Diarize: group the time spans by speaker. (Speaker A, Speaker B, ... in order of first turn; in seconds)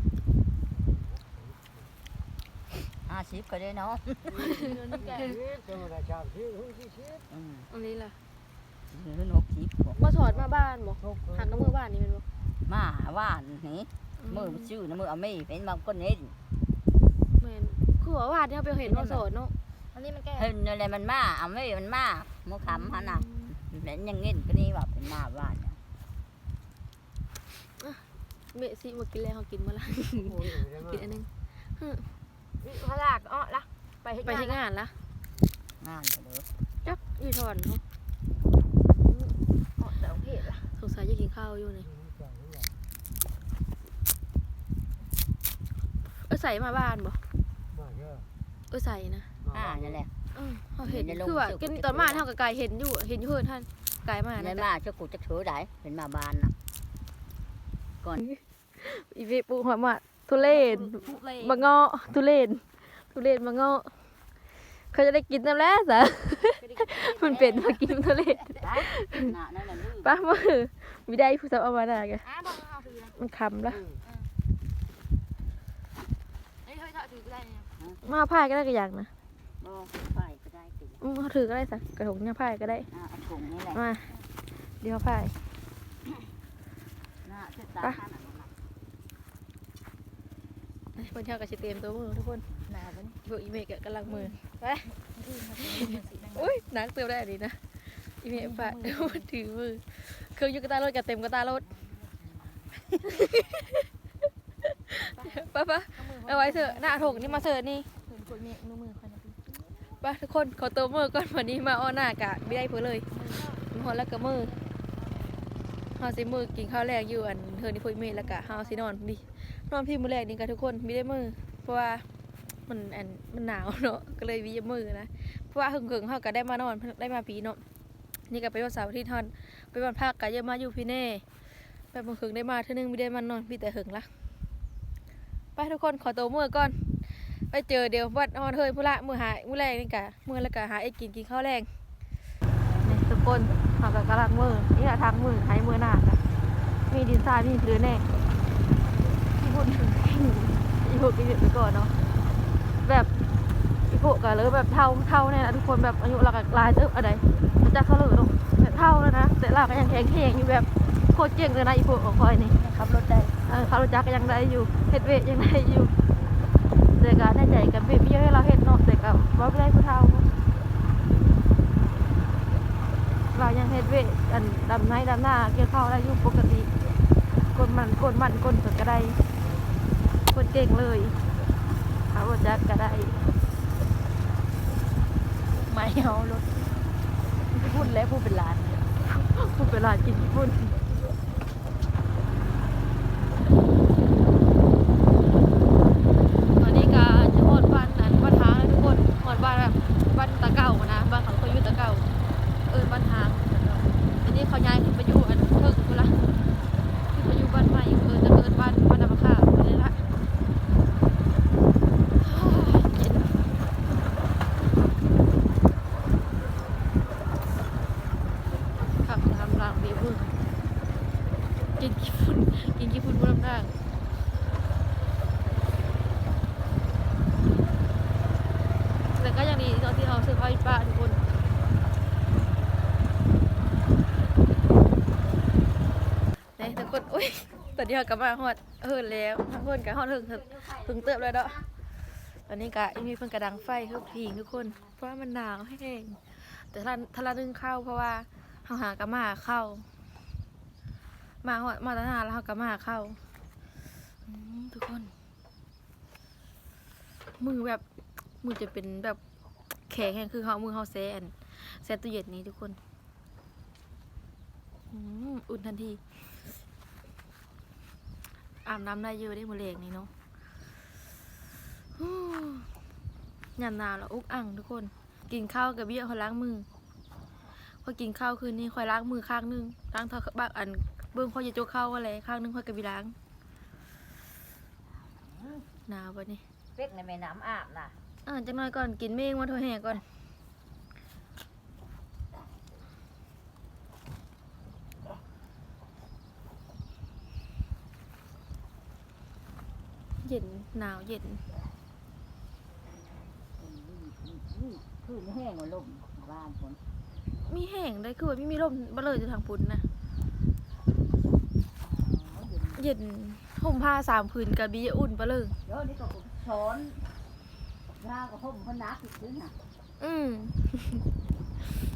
Speaker A: 0.6-1.9, 4.3-7.3, 9.9-11.7, 30.2-31.2, 41.8-42.8, 47.7-48.3, 49.4-50.0
Speaker B: 3.1-4.4, 7.3-7.7, 8.9-9.9, 12.7-16.3, 18.9-19.2, 20.4-25.8, 35.8-36.5, 49.5-50.1, 50.8-52.3, 54.4-56.5, 66.6-67.9, 68.5-70.2, 73.7-74.0, 79.6-81.0, 82.9-83.8, 87.2-88.5, 240.7-241.5, 285.3-285.6, 286.8-287.9, 303.5-306.8, 311.8-312.8, 315.7-317.0, 318.0-319.6
Speaker C: 4.4-4.6, 7.7-8.2, 10.0-12.2, 14.2-14.7, 17.4-19.5, 22.6-23.5, 27.8-32.1, 34.2-35.0, 36.9-37.8, 39.0-39.4, 40.8-41.9, 46.3-47.2, 48.7-49.3, 50.3-54.7, 58.2-64.0, 64.8-69.3, 70.0-72.2, 73.2-73.8, 78.0-79.1, 81.0-82.9, 83.7-84.1, 84.8-85.3, 91.0-92.5, 93.2-94.5, 95.6-101.7, 102.9-103.9, 104.9-107.9, 110.0-113.1, 113.6-114.5, 116.0-122.0, 122.7-127.6, 128.3-131.2, 131.9-134.1, 135.6-141.7, 142.8-146.2, 146.9-148.1, 149.4-151.9, 152.8-153.1, 153.9-162.6, 163.4-165.9, 166.9-170.3, 173.3-176.7, 177.5-179.2, 180.3-181.2, 182.1-183.2, 189.2-190.8, 196.6-202.1, 202.7-206.2, 207.1-210.0, 212.2-213.3, 219.0-220.3, 221.8-223.7, 229.2-231.2, 236.6-241.6, 242.5-249.9, 251.4-253.2, 257.4-257.8, 258.4-259.2, 259.9-262.8, 264.9-266.2, 268.6-270.1, 272.0-272.7, 273.6-276.7, 277.8-283.1, 285.9-286.4, 288.2-290.0, 300.2-301.4, 307.4-309.8, 312.8-315.6, 320.0-321.0
Speaker D: 4.6-5.4, 19.9-20.5, 32.6-34.6, 39.8-40.7, 60.3-61.7, 72.2-73.2, 74.0-74.3, 76.6-77.7, 92.6-93.2, 94.1-96.6, 98.3-99.3, 105.0-107.5, 108.1-109.9, 113.1-113.7, 118.1-119.0, 162.6-163.3, 185.6-186.8, 187.5-188.9, 254.3-255.1